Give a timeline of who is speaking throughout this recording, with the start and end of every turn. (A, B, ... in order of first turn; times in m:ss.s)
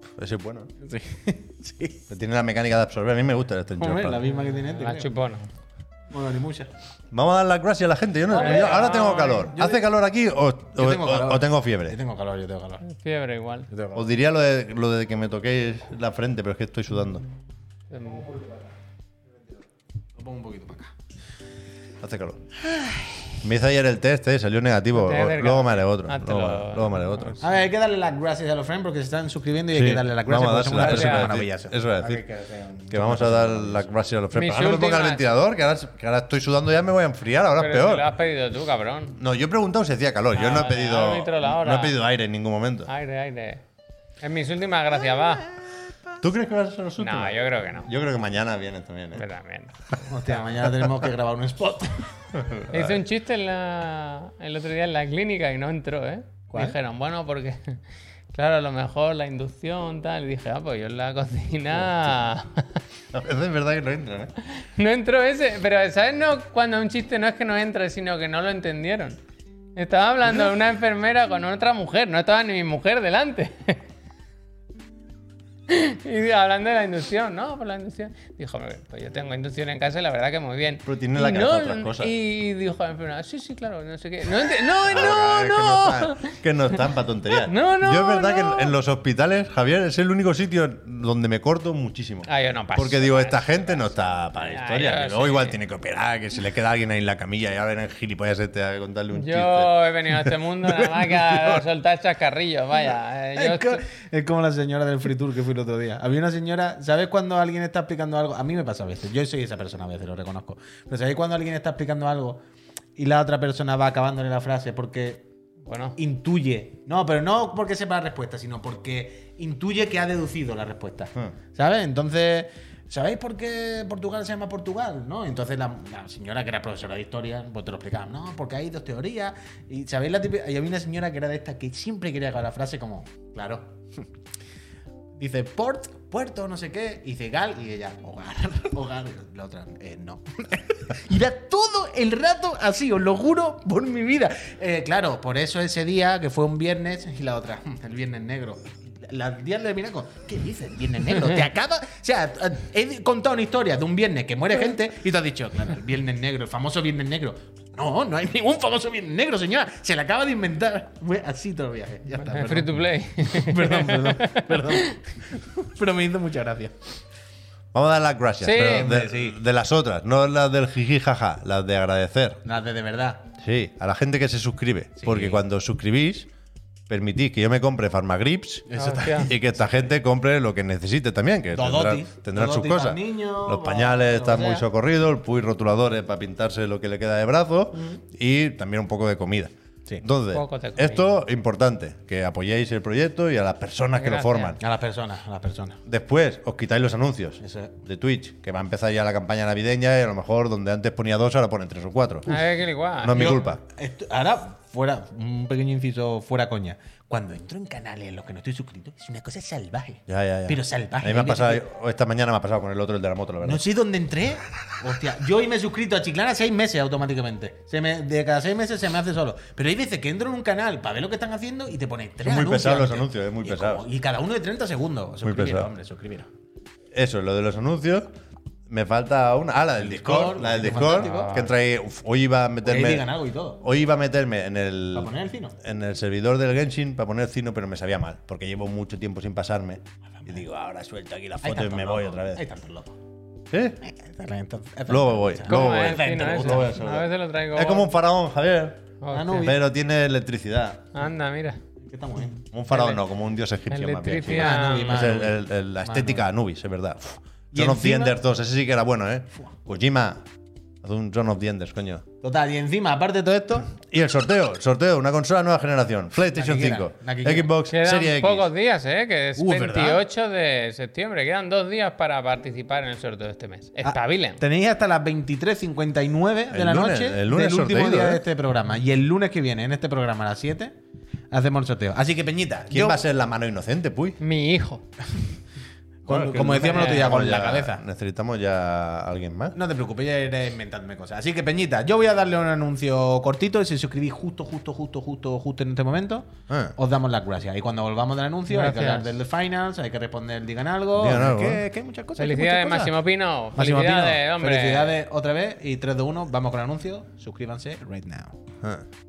0:00.2-0:00.7 A
0:00.8-0:02.0 B
0:02.1-0:04.2 A
0:03.8-0:05.1 B
0:04.5-0:05.5 C
0:06.1-0:06.7 B
0:07.1-0:12.0 A
0:08.3-0:09.8 B
0:08.4-0:09.5 C
0:10.8-0:12.8 B
0:12.8-0:13.7 C
0:13.7-0:14.1 B
0:13.9-0:17.2 A
0:17.9-0:18.3 C
0:20.2-0:20.9 B
0:22.0-0:22.4 A
0:22.6-0:23.2 B
0:23.4-0:27.4 A
0:24.9-0:27.4 C
0:27.4-0:33.9 B
0:29.7-0:32.2 A
0:30.8-0:31.3 C
0:32.9-0:38.1 A
0:34.3-0:35.2 C
0:37.6-0:39.2 C
0:39.2-0:42.9 A
0:40.3-0:41.9 C
0:42.9-0:43.6 C
0:44.2-0:45.5 C
0:46.2-0:49.2 A
0:47.0-0:47.9 C
0:49.1-0:50.0 C
0:50.0-0:52.0 B
0:52.3-0:53.0 A
0:52.7-0:57.8 C
0:56.5-0:56.8 B
0:58.3-1:02.8 C
1:03.1-1:04.3 A
1:04.5-1:09.2 C
1:09.8-1:13.8 C
1:15.7-1:26.3 C
1:20.8-1:22.1 A
1:24.7-1:41.6 A
1:27.3-1:28.7 C
1:32.2-1:35.6 C
1:39.1-1:43.8 C
1:43.3-1:52.4 B
1:53.0-1:55.2 B
1:55.6-1:56.0 C
1:56.0-2:14.0 B
2:15.2-2:47.0 B
2:42.2-2:45.0 C
2:47.7-2:52.4 A
2:48.4-2:48.9 C
2:48.6-2:49.4 B
2:52.4-2:53.2 B
2:53.4-2:56.3 A
2:55.0-2:55.4 B
2:56.9-2:58.6 A
2:58.7-2:59.4 B
2:58.8-2:59.3 C
2:59.2-3:14.6 A
3:01.5-3:04.6 B
3:10.3-3:11.1 C
3:14.0-3:14.6 C
3:14.6-3:15.8 B
3:15.8-3:22.4 A
3:17.4-3:17.7 B
3:22.2-3:23.3 C
3:23.0-3:23.6 A
3:23.1-3:31.6 B
3:30.1-3:33.6 A
3:33.4-3:46.3 B
3:42.2-3:43.8 A
3:45.2-3:45.7 A
3:46.9-3:48.1 A
3:48.7-3:53.1 A
3:49.8-3:51.4 B
3:50.8-3:51.5 C
3:52.6-3:53.6 B
3:53.6-4:02.4 A
3:54.9-3:55.6 B
4:01.4-4:03.0 B
4:03.5-4:03.8 A
4:03.8-4:06.7 B
4:04.9-4:10.9 A
4:05.5-4:07.9 C
4:09.0-4:09.5 C
4:09.1-4:09.6 B
4:10.9-4:11.6 C
4:11.8-4:12.4 B
4:12.5-4:20.2 A
4:12.7-4:13.0 C
4:13.7-4:15.0 C
4:14.2-4:16.2 B
4:17.5-4:18.1 B
4:20.8-4:22.0 A
4:22.2-4:23.7 B
4:23.8-4:28.5 A
4:26.2-4:27.5 B
4:27.7-4:34.4 C
4:29.4-4:30.0 B
4:33.8-4:40.7 B
4:36.5-4:38.2 A
4:41.3-4:43.0 B
4:42.7-4:44.2 A
4:44.2-4:44.8 C
4:46.0-4:49.6 A
4:46.1-4:47.8 B
4:46.7-4:47.0 C
4:49.5-5:02.9 B
4:56.5-4:56.7 A
4:58.5-4:59.1 C
5:01.0-5:01.6 A
5:02.2-5:04.9 C
5:03.6-5:08.4 B